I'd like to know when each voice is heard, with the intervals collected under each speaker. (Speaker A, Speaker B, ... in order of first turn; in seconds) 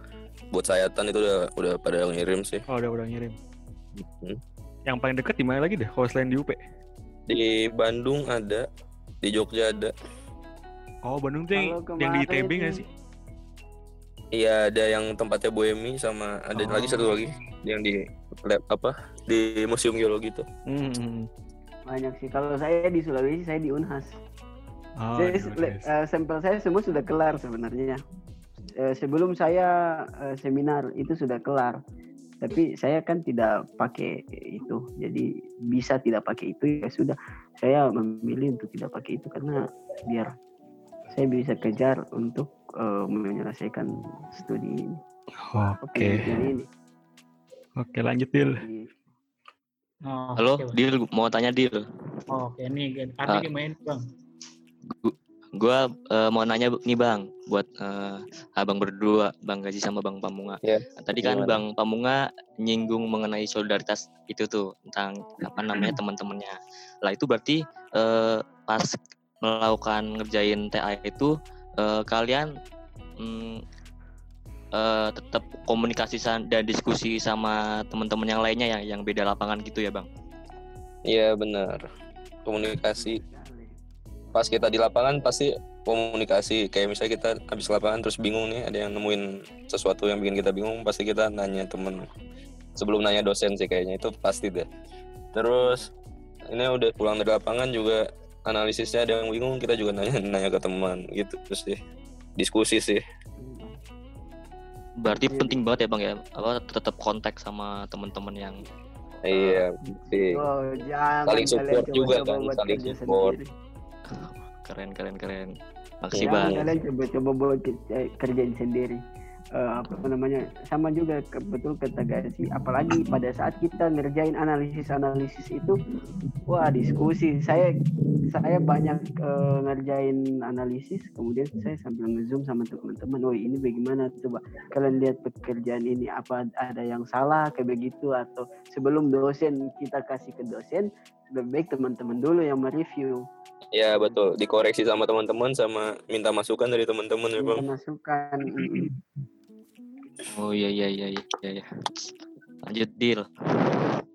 Speaker A: 0.5-2.6, 4.0-4.4, 7.3-8.6, 9.2-9.9, 14.3-20.4, 60.6-61.6, 81.1-81.8, 82.5-83.2, 84.3-92.0, 92.8-94.7, 95.3-95.9, 96.5-101.8, 102.4-103.0, 109.3-110.4, 111.3-113.3, 116.1-116.7, 143.7-147.6
Speaker B: 2.7-3.4, 4.9-6.6, 11.1-12.9, 16.6-17.3, 20.7-21.2, 25.0-25.9, 45.4-46.5, 47.8-48.6
Speaker C: 11.5-12.8, 21.9-24.1, 25.2-28.0, 28.8-29.7, 30.2-31.8, 32.4-40.3, 41.1-45.0, 45.8-46.6, 48.6-48.9, 83.0-83.8, 95.6-95.9, 103.4-103.8, 105.3-105.6, 109.3-113.5, 116.2-119.0, 119.5-125.8, 126.5-127.7, 128.3-143.2, 147.4-148.9
Speaker D: 50.1-50.8, 52.3-54.0
Speaker E: 50.4-51.8, 54.9-72.5, 73.2-73.6, 74.7-80.1, 105.0-108.6, 114.1-116.7, 150.3-151.7, 152.7-153.7